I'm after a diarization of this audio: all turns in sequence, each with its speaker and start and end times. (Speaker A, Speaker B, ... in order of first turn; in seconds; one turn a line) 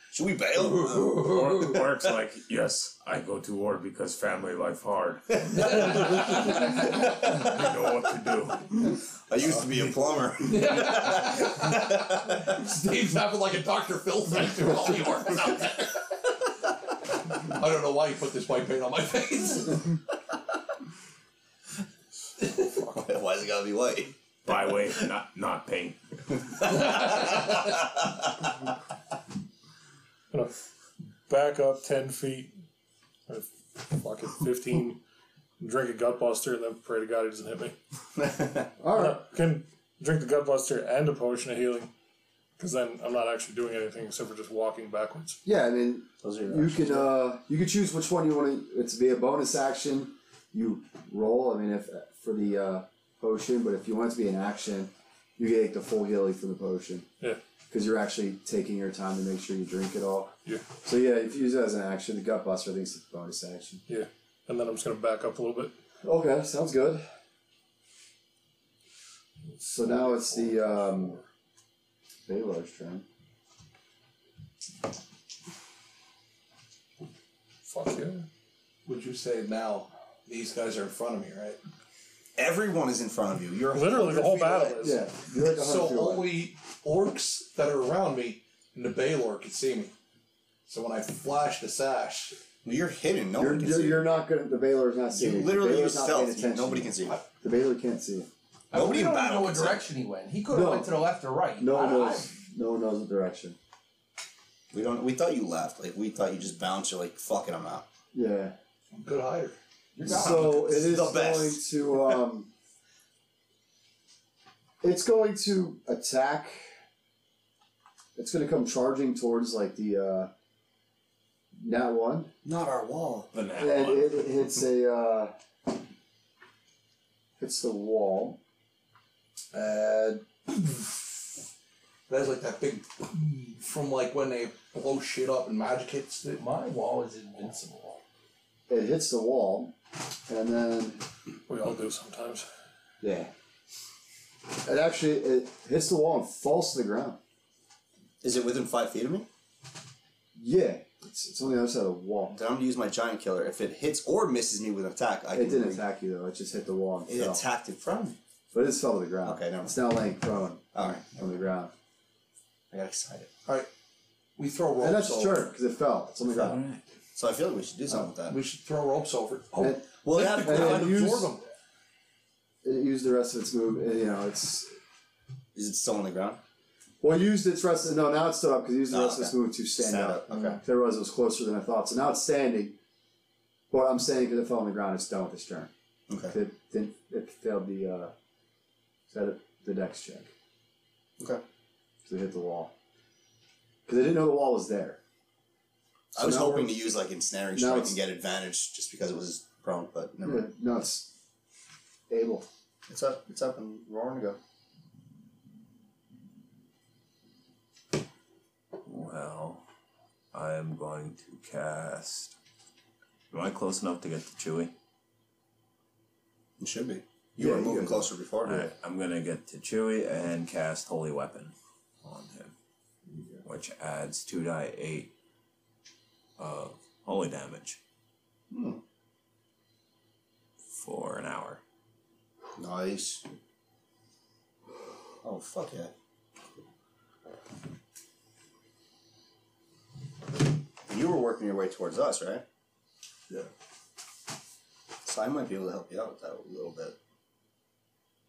Speaker A: 0.1-1.2
Speaker B: 0.5-1.9
Speaker C: 1.1-8.8
Speaker A: 5.5-5.8
Speaker A: 9.3-12.4
Speaker B: 10.5-16.0
Speaker B: 17.4-19.9
Speaker A: 22.6-25.1
Speaker C: 24.4-26.0
Speaker A: 26.6-27.4
Speaker D: 31.3-32.5
Speaker D: 33.3-35.0
Speaker D: 35.6-37.7
Speaker A: 38.2-38.7
Speaker E: 38.8-39.2
Speaker D: 38.9-41.9
Speaker D: 42.6-45.4
Speaker E: 45.4-57.1
Speaker A: 46.2-47.1
Speaker E: 57.7-63.8
Speaker D: 63.9-65.7
Speaker E: 66.0-67.0
Speaker E: 69.6-71.2
Speaker E: 72.3-73.0
Speaker D: 77.7-78.3
Speaker B: 78.8-81.6
Speaker A: 82.4-84.8
Speaker D: 83.7-85.0
Speaker E: 84.8-86.2
Speaker B: 85.4-89.9
Speaker B: 90.7-92.4
Speaker A: 92.6-94.1
Speaker E: 93.3-98.3
Speaker A: 95.1-97.2
Speaker F: 98.7-102.3
Speaker A: 98.7-99.9
Speaker E: 100.5-101.0
Speaker E: 101.6-103.6
Speaker A: 104.7-107.8
Speaker E: 108.1-108.5
Speaker B: 108.9-109.6
Speaker F: 110.0-110.5
Speaker E: 110.0-112.5
Speaker A: 110.1-111.6
Speaker E: 114.8-116.7
Speaker E: 118.2-120.3
Speaker E: 121.6-122.3
Speaker A: 122.4-123.3
Speaker C: 123.3-124.4
Speaker E: 123.6-125.3
Speaker E: 127.4-128.4
Speaker E: 129.5-130.2
Speaker B: 132.1-136.4
Speaker F: 136.3-138.0
Speaker E: 138.7-139.7
Speaker E: 140.3-141.0
Speaker D: 141.5-142.4
Speaker E: 143.0-143.3
Speaker E: 144.6-147.2
Speaker A: 148.2-149.3
Speaker E: 150.3-152.3
Speaker A: 152.3-155.8
Speaker E: 155.3-157.4
Speaker A: 157.1-158.2
Speaker E: 158.5-161.7
Speaker A: 159.2-159.8
Speaker A: 160.7-161.1
Speaker A: 162.7-163.3
Speaker B: 164.4-165.5
Speaker E: 164.8-166.6
Speaker C: 166.4-166.8
Speaker A: 167.1-168.4
Speaker B: 167.9-171.4
Speaker E: 169.6-171.3
Speaker A: 170.0-171.0
Speaker E: 172.6-174.7
Speaker A: 175.5-176.4
Speaker E: 177.0-182.8
Speaker A: 178.9-180.6
Speaker E: 183.7-185.7
Speaker A: 186.1-186.3
Speaker E: 186.3-188.1
Speaker E: 189.1-190.3
Speaker E: 192.1-192.7
Speaker E: 193.8-195.0
Speaker A: 196.1-200.4
Speaker E: 196.2-196.8
Speaker E: 197.5-198.0
Speaker E: 200.2-201.1
Speaker E: 202.1-202.5
Speaker A: 202.9-204.4
Speaker C: 208.8-209.6
Speaker C: 210.3-212.3
Speaker C: 213.3-214.7
Speaker A: 216.6-218.7
Speaker E: 217.4-218.1
Speaker C: 218.4-222.5
Speaker C: 223.4-225.1
Speaker C: 226.4-227.8
Speaker A: 228.5-228.8
Speaker C: 230.7-231.6
Speaker A: 232.6-233.2
Speaker A: 235.2-235.9
Speaker A: 240.9-242.4
Speaker A: 245.0-247.0